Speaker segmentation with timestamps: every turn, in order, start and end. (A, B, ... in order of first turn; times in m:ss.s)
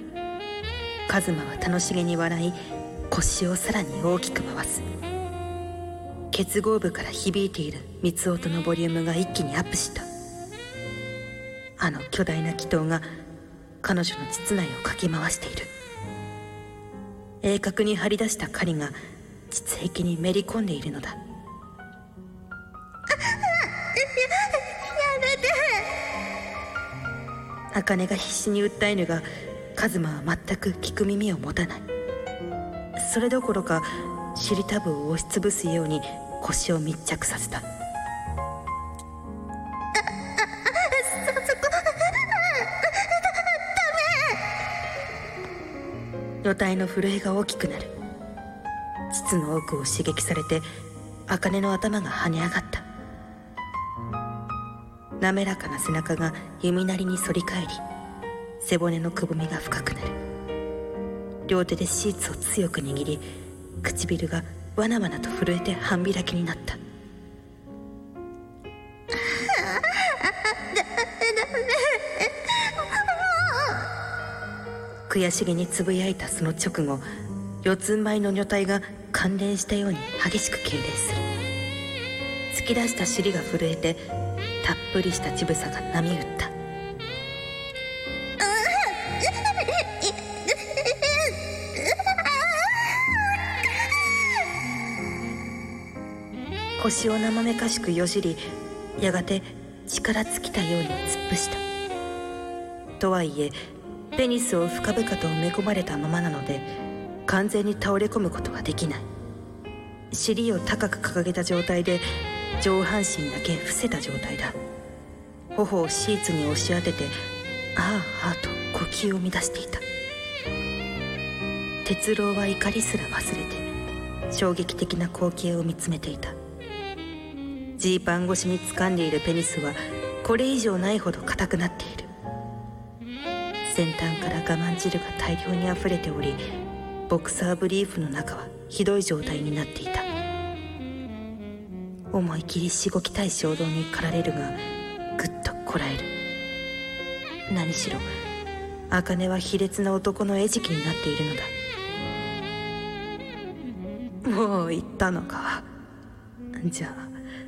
0:01.1-0:02.6 A
0:03.1-0:04.8 A
0:06.3-0:10.1 A
0:11.8-0:13.1 A
0:13.8-0:15.7 A
0:17.4-0:19.0 A
0:19.5-0:21.2 A
0:27.7-0:31.9 A
0:33.0-0:37.6 A
0:46.4-0:47.9 A
0:49.1-0:50.6 A
0:51.3-0:52.9 A
0:55.2-0:57.8 A
0:58.6-1:00.2 A
1:01.5-1:03.2 A
1:03.8-1:06.8 A
1:15.1-1:17.0 A
1:17.6-1:21.2 A
1:22.5-1:24.0 A
1:24.6-1:26.5 A
1:36.8-1:38.4 A
1:39.0-1:41.6 A
1:43.0-1:43.6 A
1:44.1-1:46.7 A
1:47.3-1:49.1 A
1:50.1-1:52.0 A
1:52.6-1:54.5 A
1:55.5-1:57.2 A
1:57.8-1:59.8 A
2:01.8-2:03.7 A
2:04.3-2:06.4 A
2:07.8-2:12.1 A
2:13.7-2:16.4 A
2:17.1-2:20.1 A
2:22.1-2:24.6 A
2:25.2-2:26.1 A
2:27.5-2:28.1 A
2:28.9-2:31.5 A
2:34.2-2:35.7 A
2:36.6-2:37.1 A